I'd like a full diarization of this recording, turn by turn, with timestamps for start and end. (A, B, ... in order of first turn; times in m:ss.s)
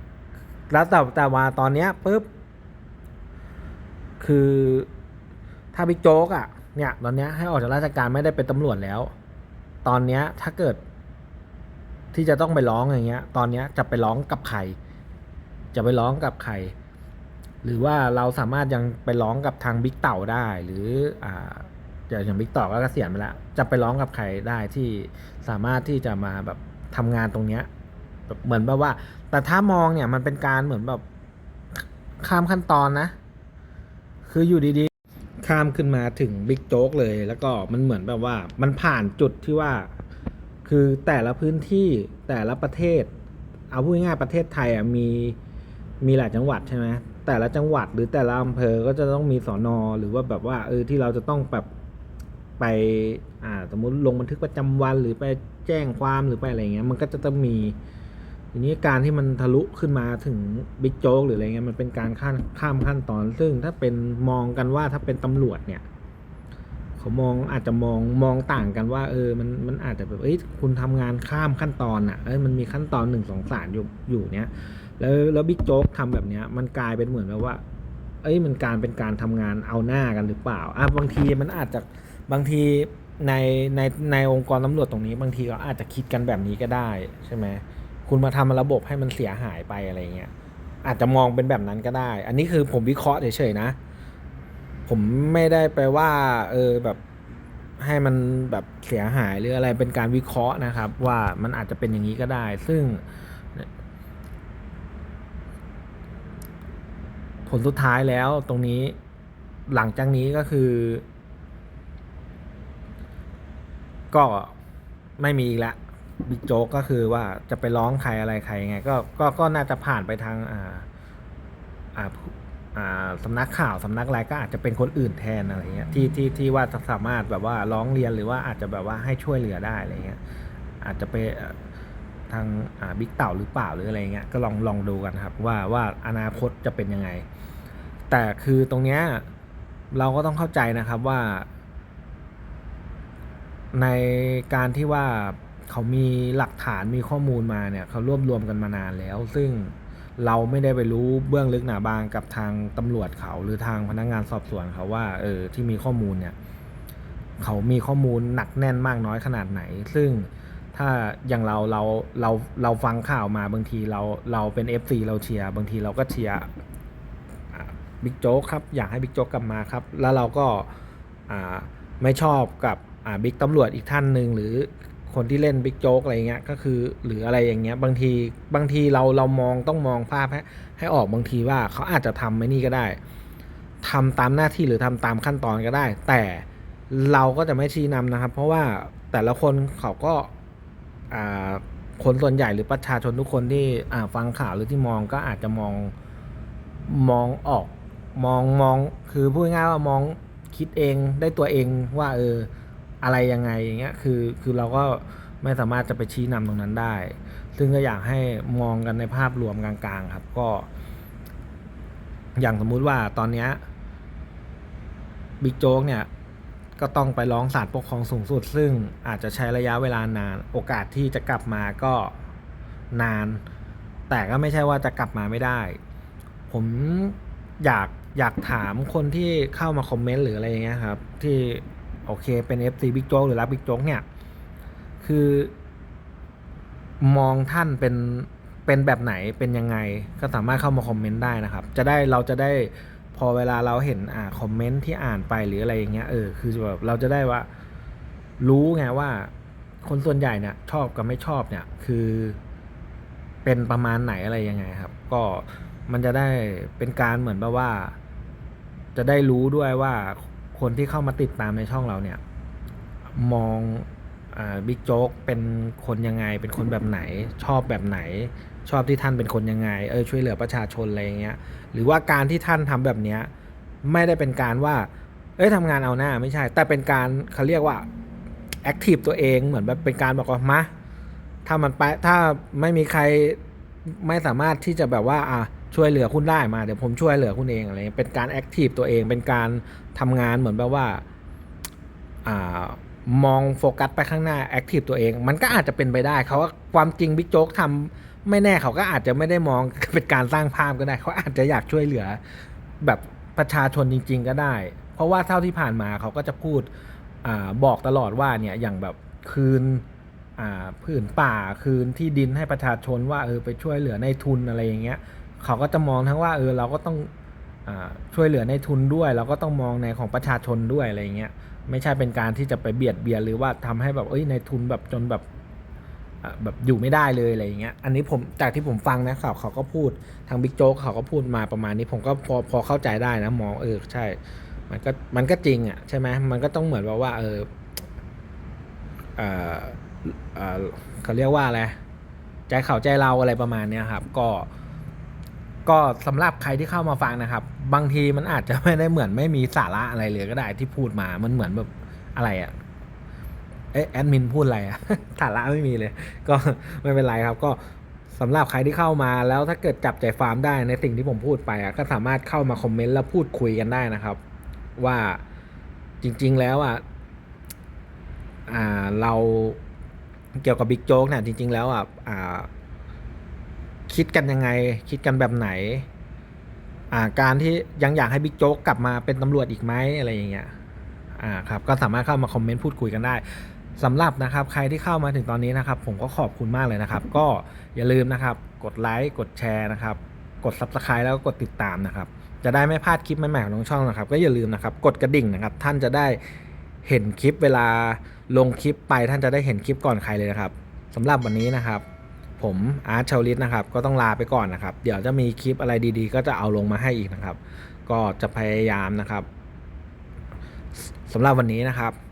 0:00.7-0:02.3 A
0:04.2-0:04.9 A
0:05.7-0:09.1 A
0:09.8-0:10.8 A
0:12.1-0:14.8 A
0:15.7-0:16.7 A
0:17.6-0:27.7 A
0:28.3-0:31.0 A
0:31.8-0:33.1 A
0:34.2-0:39.9 A
0:40.6-0:43.1 A
0:43.7-0:45.4 A
0:46.0-0:51.7 A
0:52.6-0:57.8 A
0:58.5-1:05.8 A
1:07.0-1:17.6 A
1:18.2-1:30.3 A
1:30.8-1:33.8 A
1:34.9-1:37.0 A
1:37.8-1:43.0 A
1:47.5-1:49.0 A
1:49.7-1:51.0 A
1:54.1-1:54.6 A
1:55.2-2:00.9 A
2:02.0-2:10.2 A
2:10.8-2:11.6 A
2:12.3-2:17.2 A
2:18.1-2:19.2 A
2:19.9-2:21.5 A
2:23.7-2:36.4 A
2:37.4-2:46.5 A
2:47.5-2:50.7 A
2:51.3-3:03.0 A
3:03.8-3:10.3 A
3:11.1-3:15.9 A
3:16.9-3:22.5 A
3:23.0-3:30.7 A
3:32.4-3:33.6 A
3:35.4-3:36.1 A
3:36.8-3:42.2 A
3:42.9-3:43.4 A
3:44.1-3:45.8 A
3:46.5-3:54.0 A
3:55.0-3:55.5 A
3:57.0-4:07.5 A
4:08.4-4:09.3 A
4:09.8-4:12.4 A
4:13.4-4:18.0 A
4:19.0-4:22.2 A
4:23.1-4:33.3 A
4:33.8-4:37.9 A
4:38.6-4:40.7 A
4:41.4-4:51.0 A
4:52.2-5:02.2 A
5:02.8-5:06.7 A
5:07.2-5:09.8 A
5:10.4-5:17.1 A
5:17.7-5:25.2 A
5:26.2-5:34.2 A
5:34.7-5:37.5 A
5:39.2-5:41.8 A
5:42.5-5:44.5 A
5:45.7-5:52.5 A
5:53.7-5:57.6 A
5:58.1-6:04.2 A
6:04.8-6:05.2 A
6:06.0-6:06.8 A
6:08.5-6:09.6 A
6:10.4-6:12.5 A
6:13.9-6:15.9 A
6:16.9-6:20.5 A
6:21.2-6:23.2 A
6:23.8-6:36.2 A
6:36.8-6:41.8 A
6:42.4-6:49.3 A
6:50.9-6:52.0 A